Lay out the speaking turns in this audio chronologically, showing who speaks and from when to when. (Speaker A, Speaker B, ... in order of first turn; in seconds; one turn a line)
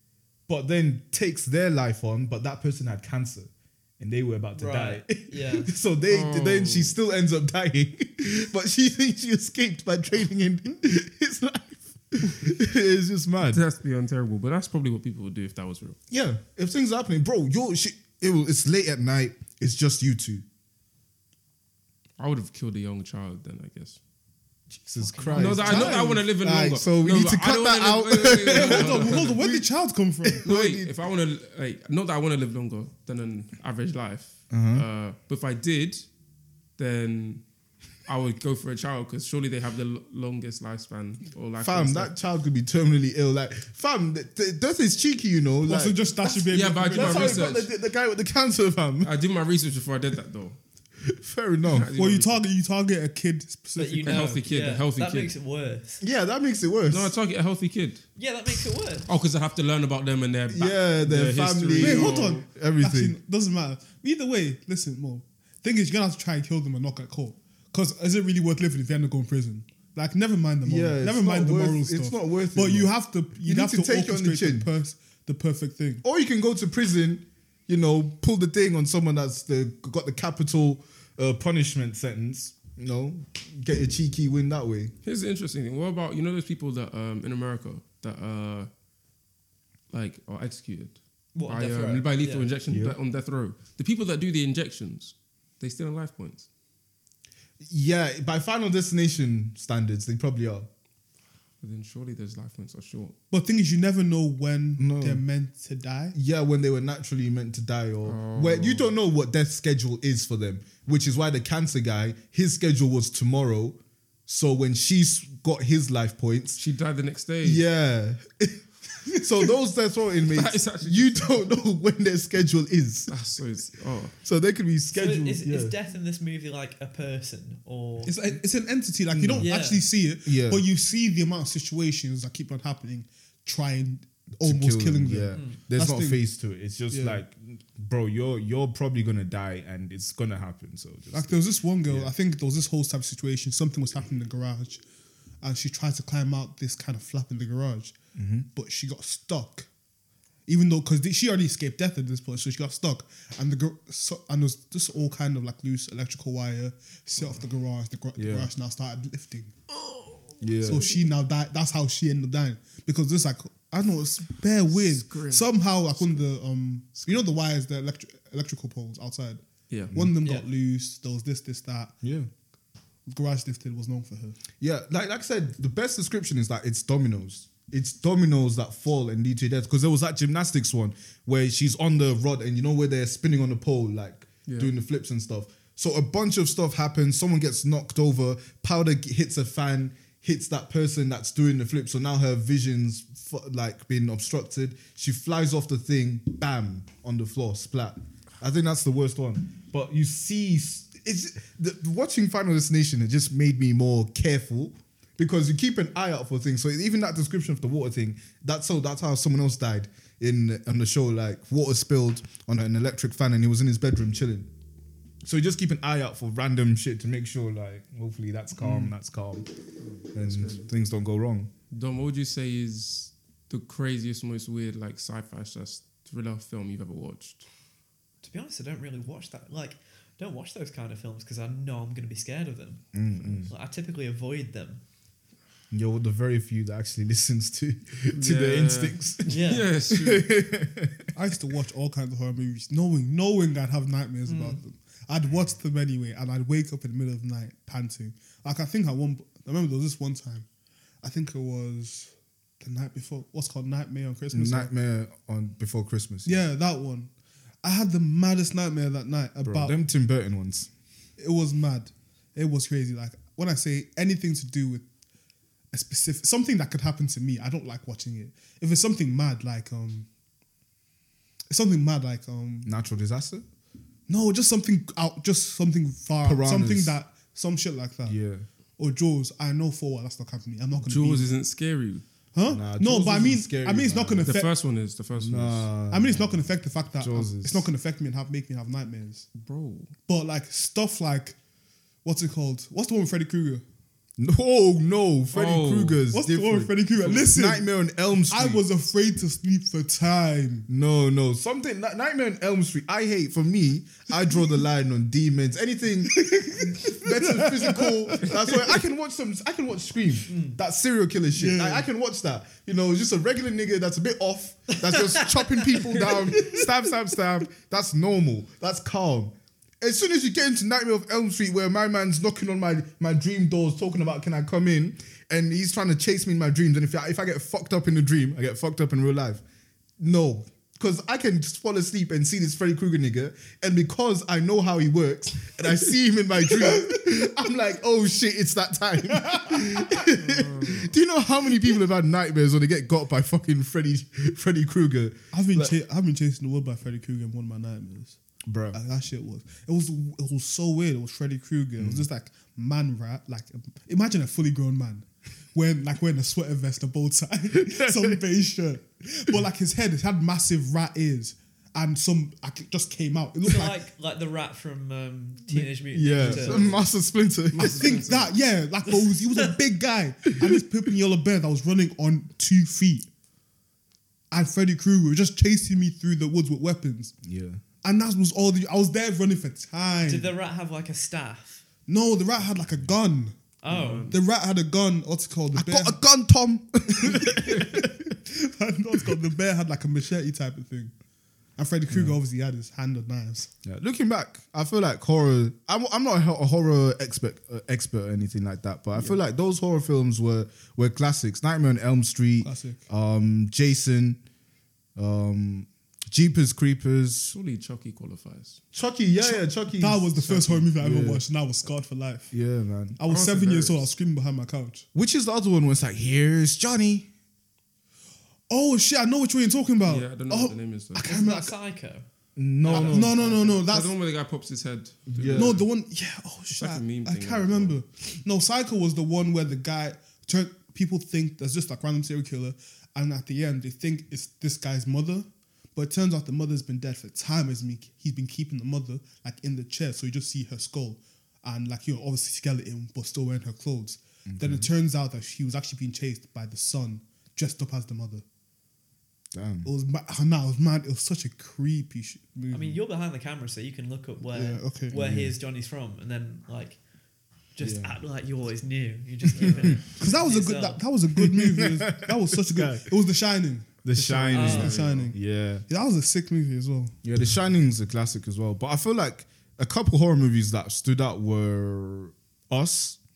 Speaker A: 0.5-13.6
Speaker B: 4.5-5.7
Speaker C: 6.1-7.0
Speaker C: 13.4-16.0
Speaker A: 16.1-20.4
Speaker C: 22.2-24.0
Speaker A: 24.8-29.7
Speaker B: 25.0-26.0
Speaker C: 25.4-29.5
Speaker D: 25.4-26.2
Speaker D: 28.5-30.5
Speaker A: 30.2-30.9
Speaker C: 30.4-36.1
Speaker A: 34.5-34.9
Speaker C: 36.8-37.4
Speaker C: 38.1-42.1
Speaker A: 41.6-49.1
Speaker D: 45.6-47.5
Speaker C: 46.5-47.7
Speaker C: 49.0-50.6
Speaker A: 51.1-51.9
Speaker C: 51.7-52.4
Speaker D: 51.9-54.4
Speaker B: 53.8-56.0
Speaker C: 54.0-55.3
Speaker A: 56.0-57.1
Speaker C: 56.9-58.0
Speaker B: 58.2-59.1
Speaker C: 59.1-62.5
Speaker A: 60.5-63.2
Speaker D: 61.8-76.0
Speaker A: 70.7-72.9
Speaker A: 73.4-74.7
Speaker A: 76.0-84.9
Speaker C: 85.0-88.7
Speaker C: 89.9-96.5
Speaker B: 91.3-92.5
Speaker A: 92.7-93.0
Speaker A: 97.6-100.7
Speaker C: 101.6-103.2
Speaker D: 103.3-106.2
Speaker A: 104.8-105.2
Speaker A: 106.2-116.6
Speaker C: 108.0-108.9
Speaker C: 116.6-117.6
Speaker A: 117.4-123.1
Speaker C: 120.2-121.5
Speaker C: 123.1-124.1
Speaker A: 124.2-125.8
Speaker B: 124.9-128.2
Speaker D: 128.1-136.2
Speaker A: 129.1-129.5
Speaker B: 129.4-129.8
Speaker A: 130.2-130.7
Speaker A: 134.4-142.1
Speaker B: 135.3-135.6
Speaker D: 136.9-137.2
Speaker D: 141.1-144.8
Speaker D: 145.4-147.9
Speaker A: 148.2-148.5
Speaker D: 148.5-149.7
Speaker D: 150.5-159.6
Speaker C: 157.2-157.4
Speaker A: 158.2-158.5
Speaker A: 160.4-160.9
Speaker D: 160.6-171.9
Speaker C: 164.7-166.2
Speaker A: 172.0-172.3
Speaker D: 173.1-174.4
Speaker A: 174.6-214.5
Speaker C: 184.5-184.7
Speaker A: 215.2-219.5
Speaker C: 219.8-220.7
Speaker A: 220.1-221.5
Speaker C: 221.7-227.5
Speaker B: 228.2-232.8
Speaker A: 232.9-233.5
Speaker B: 233.4-234.8
Speaker A: 235.7-239.3
Speaker C: 238.1-240.4
Speaker B: 239.3-239.7
Speaker A: 239.9-241.1
Speaker D: 241.1-250.5
Speaker B: 244.3-244.6
Speaker D: 251.0-254.7
Speaker A: 254.3-256.4
Speaker D: 256.3-257.1
Speaker D: 257.6-259.8
Speaker A: 259.4-260.7
Speaker D: 261.2-264.9
Speaker D: 265.7-270.1
Speaker D: 271.5-272.7
Speaker A: 272.6-273.4
Speaker D: 274.1-278.2
Speaker A: 276.2-277.0
Speaker A: 278.1-278.4
Speaker D: 278.8-281.3
Speaker C: 280.8-282.0
Speaker D: 282.3-284.5
Speaker A: 282.5-284.3
Speaker C: 284.3-285.7
Speaker A: 285.2-286.4
Speaker D: 285.9-289.3
Speaker A: 287.0-287.7
Speaker C: 289.4-289.9
Speaker D: 290.1-291.4
Speaker D: 292.1-293.6
Speaker A: 294.2-298.6
Speaker C: 295.3-296.0
Speaker D: 296.1-300.7
Speaker A: 300.7-329.4
Speaker D: 306.1-308.8
Speaker B: 310.3-310.6
Speaker D: 311.4-311.9
Speaker B: 314.8-316.3
Speaker D: 316.3-316.7
Speaker A: 330.0-345.8
Speaker D: 339.1-339.7
Speaker C: 340.1-340.9
Speaker D: 345.3-348.2
Speaker A: 348.5-348.8
Speaker D: 348.7-363.8
Speaker A: 351.8-352.1
Speaker A: 357.6-358.2
Speaker B: 363.4-366.8
Speaker A: 365.9-368.0
Speaker C: 366.2-366.8
Speaker C: 367.5-368.3
Speaker D: 367.6-373.1
Speaker B: 368.9-369.5
Speaker D: 374.3-377.1
Speaker A: 377.2-377.6
Speaker D: 377.8-380.3
Speaker B: 380.1-381.6
Speaker D: 381.9-383.4
Speaker B: 383.6-384.1
Speaker C: 383.7-384.2
Speaker D: 384.1-386.0
Speaker A: 385.5-388.1
Speaker D: 386.9-390.9
Speaker D: 391.6-393.5
Speaker A: 391.9-392.2
Speaker A: 393.6-404.2
Speaker D: 402.4-402.8
Speaker A: 405.0-407.3
Speaker C: 407.3-408.6
Speaker A: 408.7-410.1
Speaker D: 409.2-412.3
Speaker C: 410.2-410.7
Speaker A: 410.8-411.2
Speaker A: 412.3-413.0
Speaker D: 413.0-414.9
Speaker C: 413.1-413.9
Speaker A: 414.9-417.1
Speaker D: 418.5-421.5
Speaker C: 419.8-421.1
Speaker B: 421.1-422.1
Speaker A: 422.4-423.3
Speaker B: 422.6-423.6
Speaker D: 422.7-423.9
Speaker C: 422.7-425.7
Speaker A: 425.1-425.6
Speaker D: 425.3-448.2
Speaker C: 426.6-427.8
Speaker A: 444.3-444.7
Speaker A: 449.3-449.7
Speaker D: 449.6-452.8
Speaker B: 452.5-456.8
Speaker D: 454.3-455.0
Speaker A: 454.9-455.3
Speaker B: 457.5-460.8
Speaker A: 457.6-458.0
Speaker A: 459.4-459.8
Speaker C: 459.4-459.8
Speaker D: 459.9-463.8
Speaker A: 461.2-462.9
Speaker A: 463.8-465.7
Speaker C: 463.9-465.1
Speaker B: 464.3-464.8
Speaker D: 464.4-467.0
Speaker A: 467.0-473.0